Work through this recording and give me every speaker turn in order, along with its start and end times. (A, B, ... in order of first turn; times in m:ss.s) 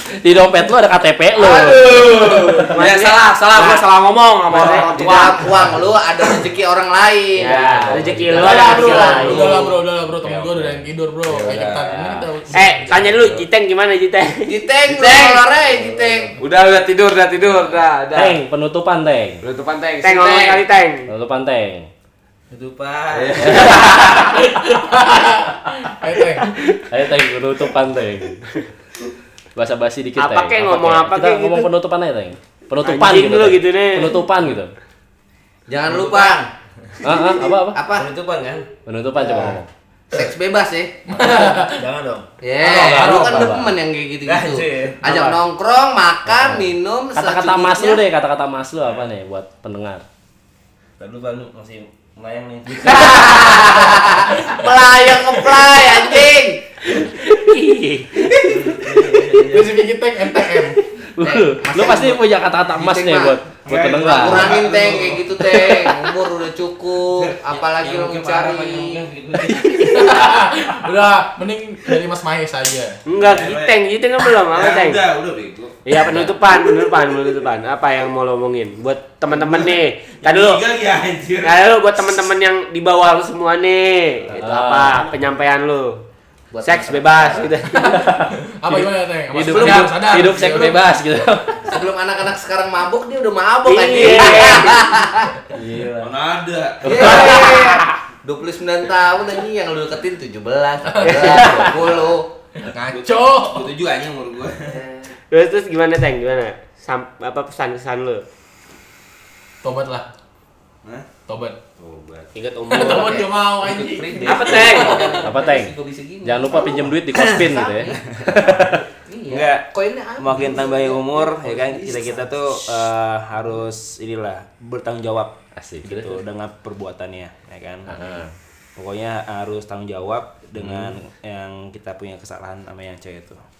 0:00.2-0:02.5 A
0:01.4-0:05.8 B
0:02.0-0:03.8 C
0:04.5-0:05.3 C
0:04.6-0:09.8 D
0:07.4-0:09.6 C
0:07.6-0:08.4 A
0:07.7-0:09.2 B
0:09.2-0:13.4 E
0:11.3-0:12.2 B
0:12.5-0:14.5 C
0:14.5-0:16.3 D
0:14.9-0:15.4 B
0:16.4-0:18.4 B
0:17.6-0:19.4 A
0:19.4-0:20.6 B
0:20.0-0:21.1 C
0:21.1-0:21.9 A
0:22.5-0:24.3 F
0:23.1-0:23.7 B
0:23.4-0:23.7 A
0:24.4-0:26.6 E
0:26.9-0:28.4 A
0:29.6-0:34.7 A
0:30.2-0:31.7 C
0:32.8-0:34.2 C
0:35.7-0:36.4 D
0:35.9-0:37.3 F
0:37.0-0:37.8 A
0:37.8-0:38.1 D
0:37.9-0:38.7 F
0:38.9-0:39.7 A
0:39.2-0:39.6 D
0:40.1-0:41.6 D
0:41.1-0:41.8 E
0:41.6-0:42.3 F
0:42.4-0:48.0 D
0:42.6-0:43.8 A
0:42.8-0:43.5 F
0:44.3-0:45.4 F
0:46.3-0:50.0 A
0:51.0-0:53.6 F
0:52.7-0:54.7 E
0:52.8-0:58.4 C
0:55.1-0:56.4 D
0:58.2-0:58.6 E
0:58.4-0:59.8 F
0:59.5-1:00.8 E
1:01.2-1:04.6 A
1:01.2-1:02.2 D
1:02.8-1:03.4 D
1:03.7-1:05.9 F
1:04.0-1:09.0 D
1:07.2-1:10.2 F
1:09.4-1:13.0 E
1:13.1-1:15.0 C
1:13.2-1:13.8 F
1:14.5-1:17.3 F
1:15.9-1:20.6 C
1:19.3-1:22.2 F
1:21.4-1:26.0 C
1:24.3-1:25.0 A
1:24.4-1:24.6 D
1:26.5-1:27.5 D
1:26.6-1:27.9 C
1:27.8-1:31.7 A
1:27.9-1:30.8 E
1:31.7-1:35.4 D
1:33.7-1:34.8 C
1:35.5-1:36.1 A
1:36.0-1:37.5 F
1:36.8-1:42.3 D
1:37.0-1:37.9 C
1:40.9-1:41.5 E
1:41.0-1:41.7 C
1:41.7-1:42.1 F
1:42.6-1:43.7 E
1:42.9-1:44.8 F
1:44.7-1:45.0 D
1:45.3-1:48.3 C
1:49.6-1:50.1 E
1:51.3-1:51.6 E
1:51.8-1:52.9 F
1:52.3-1:53.4 C
1:52.7-1:55.2 E
1:54.2-1:55.2 C
1:54.2-2:02.7 D
1:55.2-1:55.7 A
1:56.2-1:58.7 A
1:57.1-1:57.5 F
1:58.4-1:58.8 F
1:59.3-1:59.7 F
2:00.2-2:07.9 F
2:05.6-2:06.2 A
2:07.9-2:08.3 A
2:08.8-2:13.4 F
2:10.6-2:11.0 A